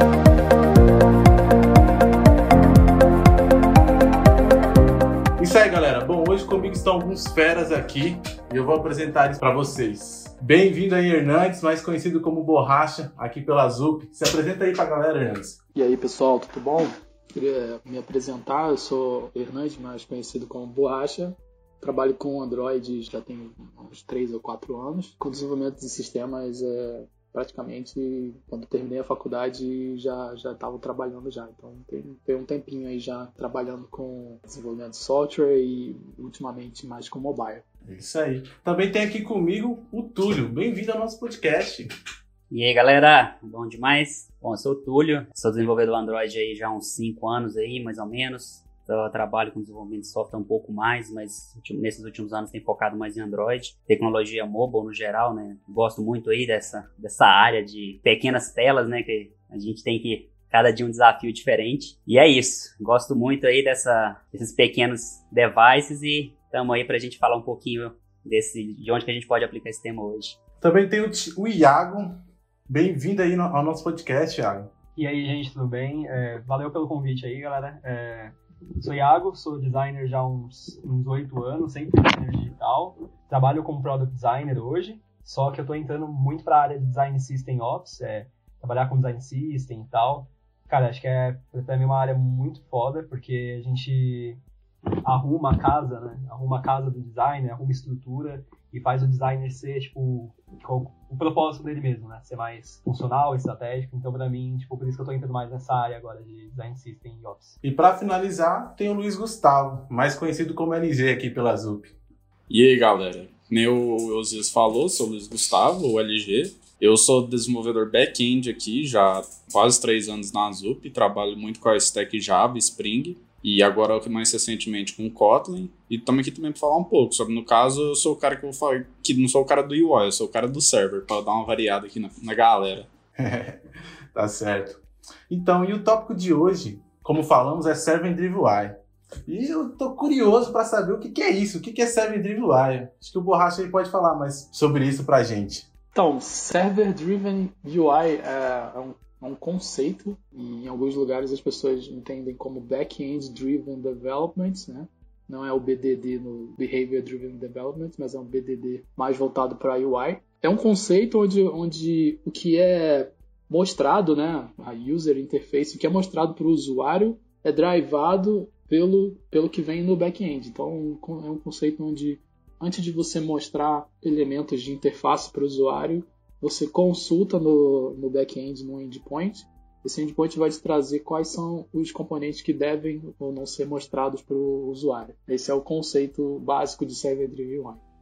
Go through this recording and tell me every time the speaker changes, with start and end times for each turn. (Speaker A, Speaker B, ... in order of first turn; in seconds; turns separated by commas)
Speaker A: 5.4-15.6, Speaker B: 15.7-37.6, Speaker A: 37.8-41.9, Speaker C: 42.5-70.4, Speaker A: 70.6-72.1, Speaker A: 72.7-74.7, Speaker D: 75.0-94.4, Speaker D: 95.0-107.5, Speaker A: 107.6-111.9, Speaker E: 112.5-132.9, Speaker A: 133.2-133.6, Speaker A: 134.1-138.8, Speaker A: 139.3-145.7, Speaker B: 145.9-187.8